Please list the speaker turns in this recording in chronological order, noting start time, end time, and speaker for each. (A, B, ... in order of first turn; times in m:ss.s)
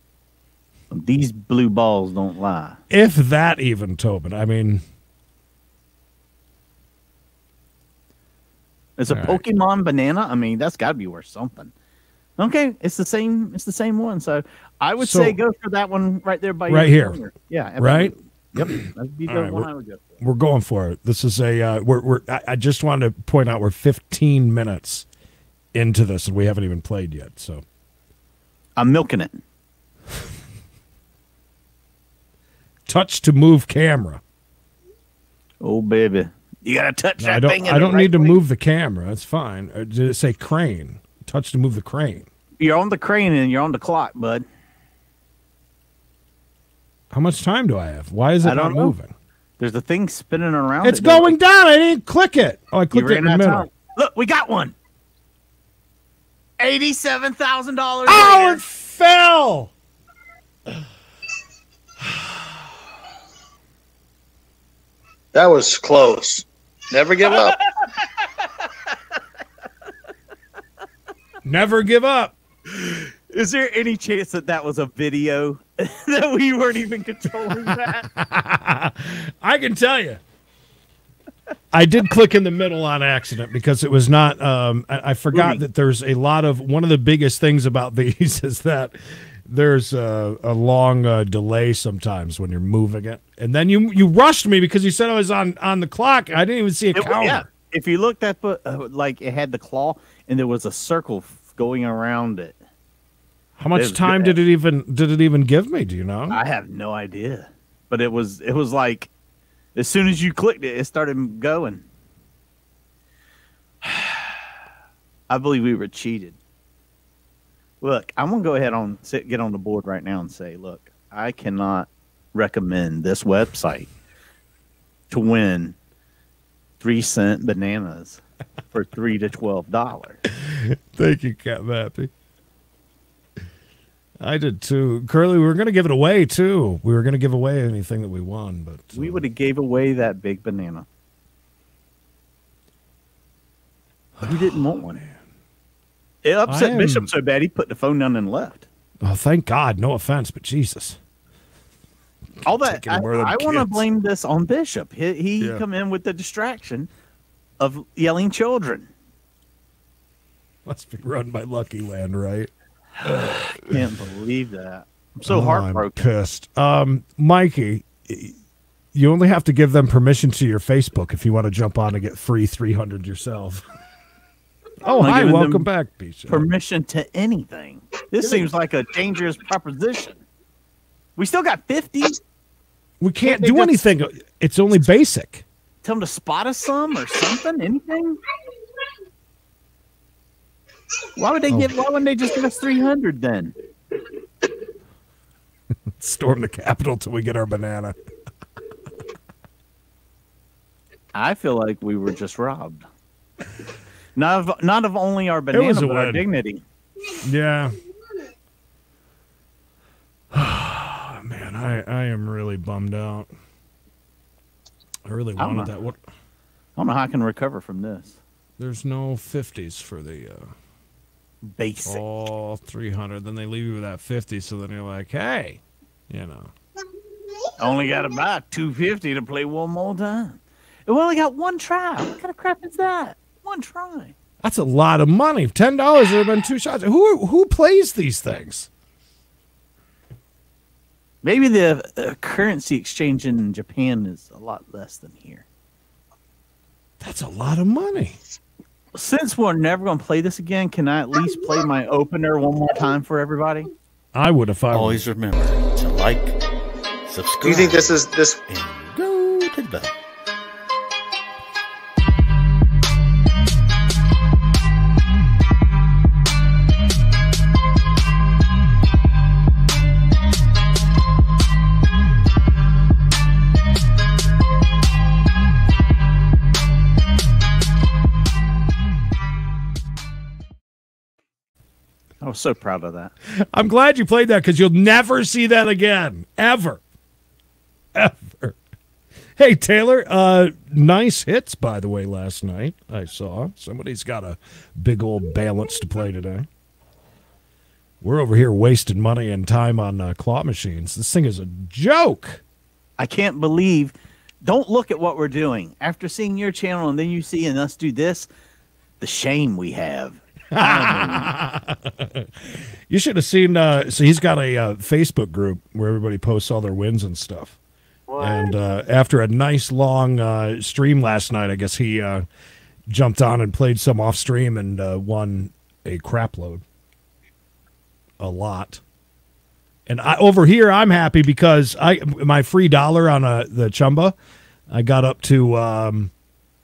0:00.9-0:02.8 A
0:02.9-0:04.8 B
0:09.0-0:11.7 A
0:09.1-0:09.4 B
0:12.4-0:20.2 A
0:15.0-0:15.4 B
0:16.7-0:17.2 B
0:17.8-0:18.7 B
0:19.3-0:19.7 B
0:20.2-0:25.0 B
0:25.7-0:27.6 B
0:28.8-0:29.4 A
0:32.8-0:34.2 B
0:35.6-0:38.4 A
0:37.2-0:42.3 B
0:42.6-0:44.4 A
0:47.1-0:49.1 B
0:48.4-0:48.9 A
0:49.6-0:51.3 A
0:50.8-0:53.7 B
0:52.9-0:54.8 A
0:56.6-0:58.6 A
0:58.0-0:59.7 B
1:05.3-1:07.6 C
1:07.3-1:08.3 A
1:11.4-1:12.4 B
1:12.9-1:18.1 A
1:17.7-1:20.2 B
1:21.7-1:37.4 B
1:25.3-1:25.6 A
1:36.9-1:42.6 A
1:43.6-1:46.4 B
1:43.7-1:44.4 A
1:46.3-1:49.1 A
1:49.8-1:51.8 A
1:53.8-1:54.4 A
1:55.3-1:56.4 A
1:57.8-2:03.9 A
2:05.1-2:05.8 A
2:06.8-2:10.2 A
2:10.4-2:12.1 B
2:14.2-2:19.2 B
2:18.9-2:20.9 A
2:24.2-2:25.0 A
2:26.2-2:28.7 A
2:26.5-2:27.1 B
2:29.0-2:31.0 B
2:32.4-2:33.9 B
2:32.4-2:36.9 A
2:37.6-2:38.9 A
2:40.6-2:42.5 B
2:43.0-2:43.8 B
2:43.1-2:46.0 A
2:45.2-2:48.4 B
2:48.9-2:53.6 B
2:54.8-2:56.5 B
2:54.9-2:55.7 A
2:56.3-3:00.2 A
3:01.2-3:02.2 A
3:03.0-3:05.4 B
3:03.2-3:03.8 A
3:05.8-3:08.2 A
3:11.2-3:13.5 A
3:15.9-3:17.9 B
3:21.1-3:22.8 A
3:24.1-3:26.6 A
3:25.5-3:26.2 B
3:27.2-3:27.7 B
3:30.3-3:33.3 B
3:35.1-3:36.0 B
3:35.4-3:35.7 A
3:36.8-3:38.2 A
3:38.6-3:40.5 B
3:41.4-3:42.0 A
3:41.8-3:46.5 B
3:47.6-3:54.1 A
3:54.4-3:58.7 B
4:01.2-4:05.4 A
4:07.0-4:08.2 B
4:08.9-4:13.7 A
4:14.1-4:15.1 B
4:14.7-4:16.4 D
4:17.1-4:19.9 D
4:17.4-4:18.4 C
4:42.2-4:43.1 A
4:43.3-4:46.8 B
4:47.9-4:48.6 B
4:49.4-4:56.5 B
4:58.0-5:02.4 B
5:03.0-5:08.3 A
5:09.0-5:11.3 A
5:10.5-5:17.6 B
5:18.1-5:18.5 A
5:18.2-5:22.2 B
5:22.9-5:26.6 B
5:28.2-5:28.8 B
5:29.9-5:34.1 B
5:34.7-5:36.1 B